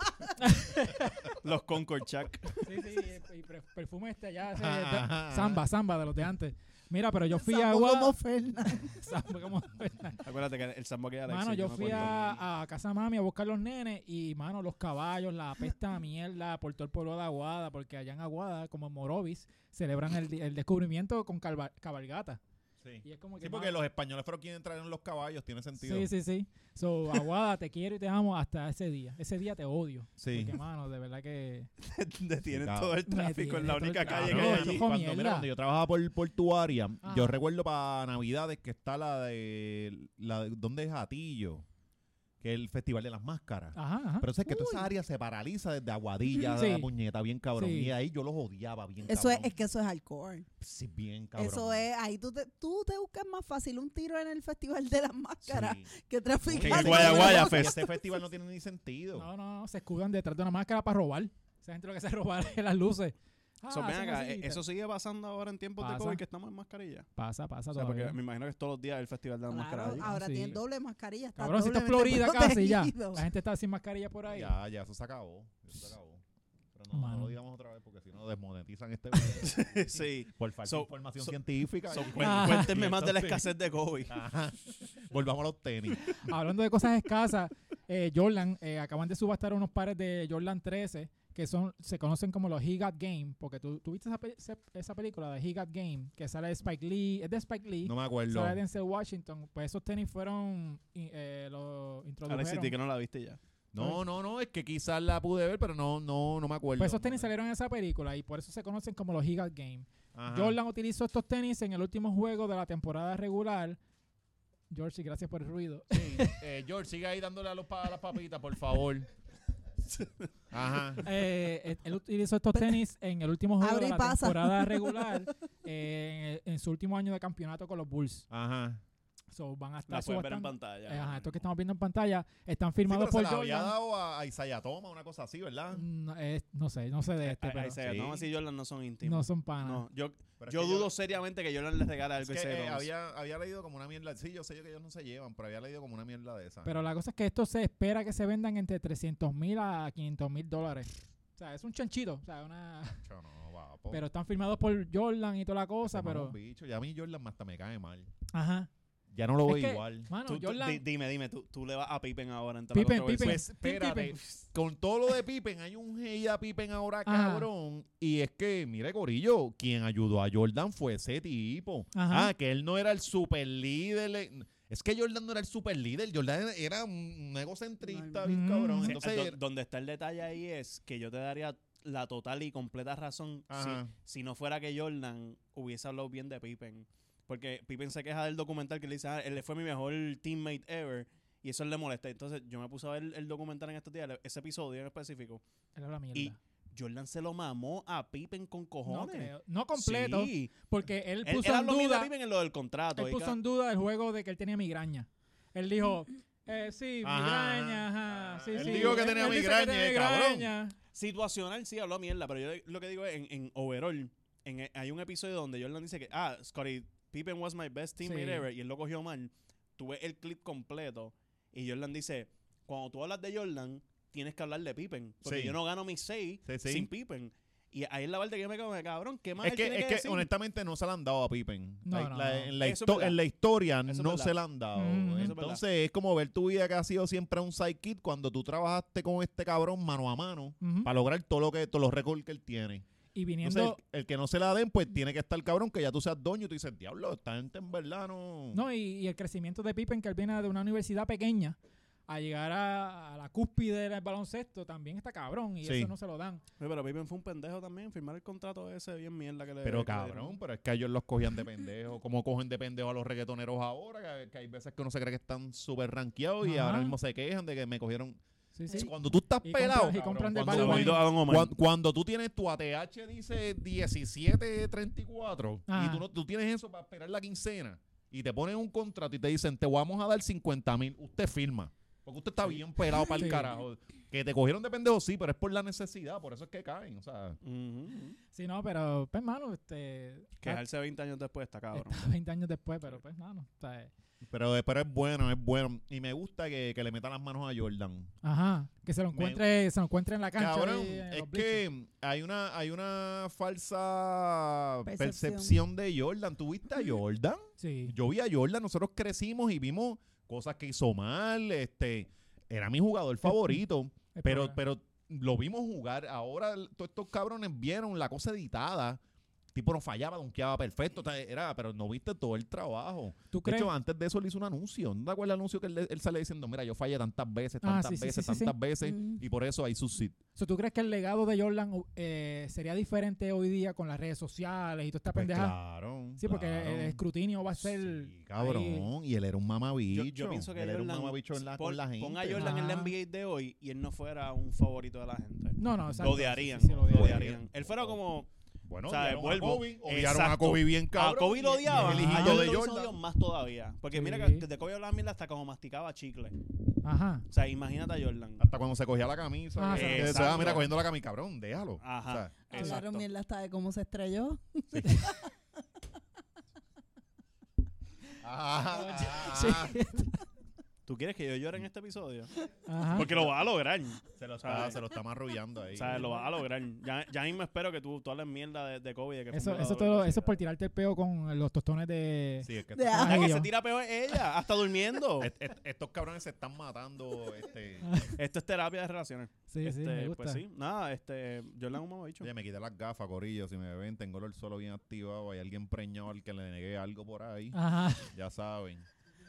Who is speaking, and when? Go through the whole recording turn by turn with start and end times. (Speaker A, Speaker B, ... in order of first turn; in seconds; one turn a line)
Speaker A: 0.4-1.2
Speaker B: 1.4-2.6
Speaker A: 2.6-8.2
Speaker C: 4.5-5.6
Speaker D: 7.3-9.0
Speaker A: 8.8-10.2
Speaker B: 10.2-12.2
Speaker A: 11.3-22.4
Speaker C: 11.8-12.4
Speaker C: 22.8-26.1
Speaker A: 23.0-23.8
Speaker A: 25.8-31.7
Speaker C: 30.2-30.6
Speaker B: 31.8-34.8
Speaker C: 32.5-33.0
Speaker A: 33.0-35.5
Speaker C: 34.0-41.6
Speaker A: 37.0-37.3
Speaker C: 42.4-49.6
Speaker A: 43.7-44.3
Speaker D: 44.5-44.9
Speaker A: 46.5-46.9
Speaker A: 47.6-47.9
Speaker D: 49.0-50.5
Speaker C: 50.6-51.8
Speaker D: 51.3-58.1
Speaker C: 55.4-55.9
Speaker C: 56.4-59.3
Speaker B: 56.6-57.8
Speaker A: 59.1-64.6
Speaker B: 63.7-67.1
Speaker A: 65.8-66.2
Speaker A: 67.2-68.2
Speaker B: 67.7-70.1
Speaker D: 69.5-73.2
Speaker A: 69.9-70.6
Speaker A: 71.3-74.5
Speaker C: 74.3-76.2
Speaker C: 76.7-83.5
Speaker A: 76.9-77.3
Speaker B: 79.3-81.3
Speaker B: 81.9-84.1
Speaker A: 82.2-82.7
Speaker C: 84.1-86.0
Speaker A: 86.1-102.7
Speaker C: 97.8-98.6
Speaker B: 102.3-103.4
Speaker C: 103.7-107.3
Speaker A: 106.8-113.8
Speaker C: 110.1-110.6
Speaker A: 114.7-116.3
Speaker C: 115.9-119.1
Speaker C: 120.5-121.0
Speaker A: 121.0-128.3
Speaker D: 122.5-122.8
Speaker D: 123.6-125.2
Speaker C: 128.3-128.8
Speaker A: 129.3-133.7
Speaker B: 129.9-131.2
Speaker C: 132.9-135.8
Speaker A: 135.7-137.8
Speaker B: 137.2-142.9
Speaker C: 137.8-138.3
Speaker A: 139.0-139.8
Speaker C: 140.4-140.9
Speaker C: 142.2-146.8
Speaker A: 146.6-153.0
Speaker C: 153.0-154.0
Speaker A: 153.9-156.3
Speaker C: 155.8-158.1
Speaker A: 158.3-158.7
Speaker C: 159.1-160.1
Speaker A: 159.4-160.8
Speaker B: 160.2-163.4
Speaker A: 162.7-164.2
Speaker C: 163.2-179.4
Speaker A: 167.1-167.5
Speaker A: 171.9-172.3
Speaker A: 178.2-179.0
Speaker B: 178.8-195.4
Speaker C: 183.5-183.9
Speaker A: 195.8-196.4
Speaker B: 196.1-200.5
Speaker A: 198.8-202.1
Speaker B: 201.2-203.4
Speaker A: 202.9-210.7
Speaker C: 207.0-210.5
Speaker B: 208.5-209.2
Speaker B: 210.9-230.2
Speaker A: 218.0-218.4
Speaker C: 225.2-225.6
Speaker C: 226.4-226.9
Speaker C: 229.4-242.8
Speaker A: 231.8-232.5
Speaker B: 232.6-233.2
Speaker B: 233.8-234.3
Speaker A: 234.7-235.3
Speaker B: 235.2-235.6
Speaker A: 240.6-240.9
Speaker A: 243.1-243.8
Speaker C: 243.4-248.6
Speaker A: 248.5-251.6
Speaker A: 252.1-256.4
Speaker C: 255.6-255.9
Speaker B: 256.6-260.4
Speaker C: 259.6-268.2
Speaker A: 266.4-266.9
Speaker A: 268.5-271.1
Speaker C: 268.7-287.4
Speaker B: 270.5-271.5
Speaker A: 275.7-276.0
Speaker A: 283.2-283.5
Speaker B: 287.4-288.2
Speaker A: 288.3-290.6
Speaker B: 290.4-292.1
Speaker A: 291.7-293.9
Speaker C: 294.2-298.1
Speaker A: 298.2-301.6
Speaker C: 299.1-299.4
Speaker C: 300.4-319.0
Speaker D: 304.8-305.6
Speaker A: 307.6-307.9
Speaker A: 313.2-313.6
Speaker A: 314.1-314.6
Speaker C: 319.5-330.2
Speaker A: 323.3-323.7
Speaker A: 327.6-328.5
Speaker D: 328.8-329.2
Speaker A: 330.4-335.6
Speaker C: 335.1-342.6
Speaker A: 336.2-338.9
Speaker B: 339.9-348.3
Speaker A: 342.4-342.9
Speaker A: 345.6-347.3
Speaker C: 346.9-348.0
Speaker C: 348.7-352.9
Speaker B: 348.9-356.4
Speaker A: 351.7-352.4
Speaker A: 353.9-354.4
Speaker A: 356.8-357.3
Speaker B: 357.3-358.4
Speaker C: 358.4-362.4
Speaker A: 359.6-360.6
Speaker B: 359.7-360.7
Speaker B: 361.8-363.1
Speaker D: 362.5-365.3
Speaker A: 362.5-362.8
Speaker C: 364.7-365.0
Speaker C: 368.2-369.8
Speaker A: 368.8-370.2
Speaker B: 370.9-372.3
Speaker A: 372.6-373.1
Speaker B: 372.9-374.8
Speaker C: 372.9-373.3
Speaker C: 374.2-376.1
Speaker B: 375.7-380.4
Speaker A: 379.3-383.5
Speaker C: 382.4-383.3
Speaker D: 382.7-383.3
Speaker B: 383.0-385.3
Speaker C: 385.2-388.0
Speaker A: 387.8-388.1
Speaker B: 388.2-392.3
Speaker A: 389.5-390.4
Speaker C: 392.2-398.9
Speaker A: 397.5-398.1